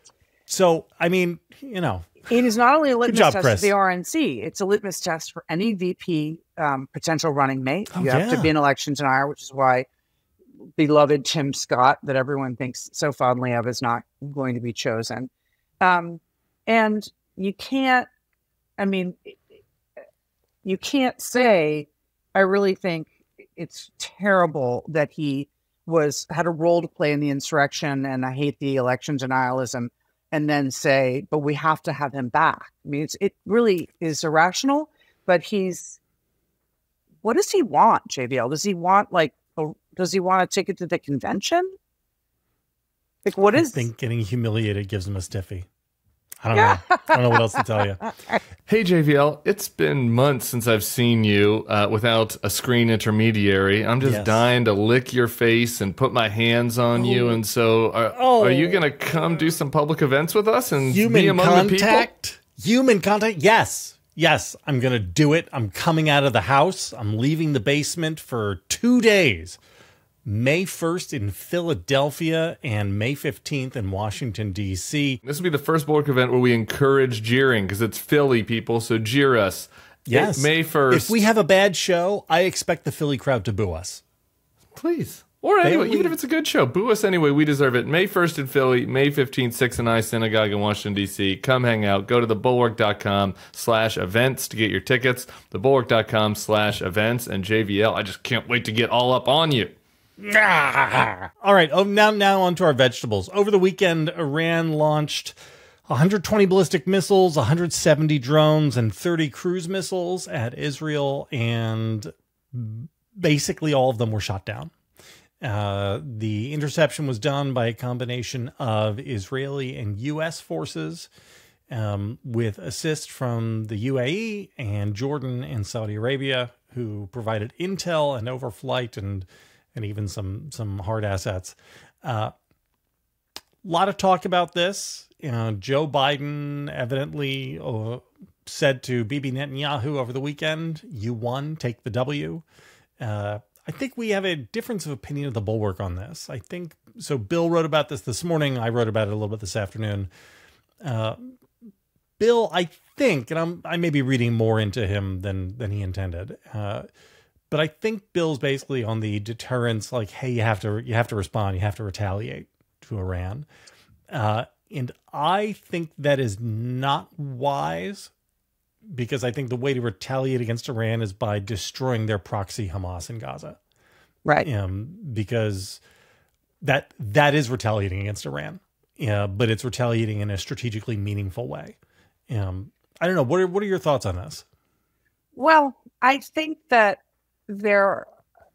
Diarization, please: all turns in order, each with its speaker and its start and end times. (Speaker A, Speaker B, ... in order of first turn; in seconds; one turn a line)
Speaker A: 0.5-2.3
Speaker B: 2.3-9.9
Speaker A: 3.1-3.7
Speaker A: 7.9-8.5
Speaker B: 10.8-15.3
Speaker B: 15.8-18.1
Speaker B: 18.8-19.5
Speaker B: 20.6-36.0
Speaker B: 37.2-41.7
Speaker B: 43.2-43.9
Speaker A: 43.6-45.7
Speaker A: 46.4-48.0
Speaker B: 46.5-48.4
Speaker C: 48.7-62.1
Speaker A: 54.0-54.5
Speaker A: 56.9-57.4
Speaker A: 58.1-58.8
Speaker A: 60.9-69.6
Speaker A: 70.3-75.2
Speaker C: 75.2-81.1
Speaker A: 80.1-84.0
Speaker C: 84.8-99.8
Speaker A: 85.6-86.2
Speaker A: 100.2-105.3
Speaker A: 105.9-114.7
Speaker A: 115.4-121.1
Speaker A: 121.7-132.3
Speaker A: 133.6-142.4
Speaker A: 143.0-150.1
Speaker A: 150.8-151.4
Speaker A: 152.2-156.9
Speaker A: 157.5-163.5
Speaker A: 164.1-168.1
Speaker A: 168.9-173.6
Speaker A: 174.4-175.8
Speaker A: 176.6-181.8
Speaker A: 182.3-184.4
Speaker B: 185.3-188.1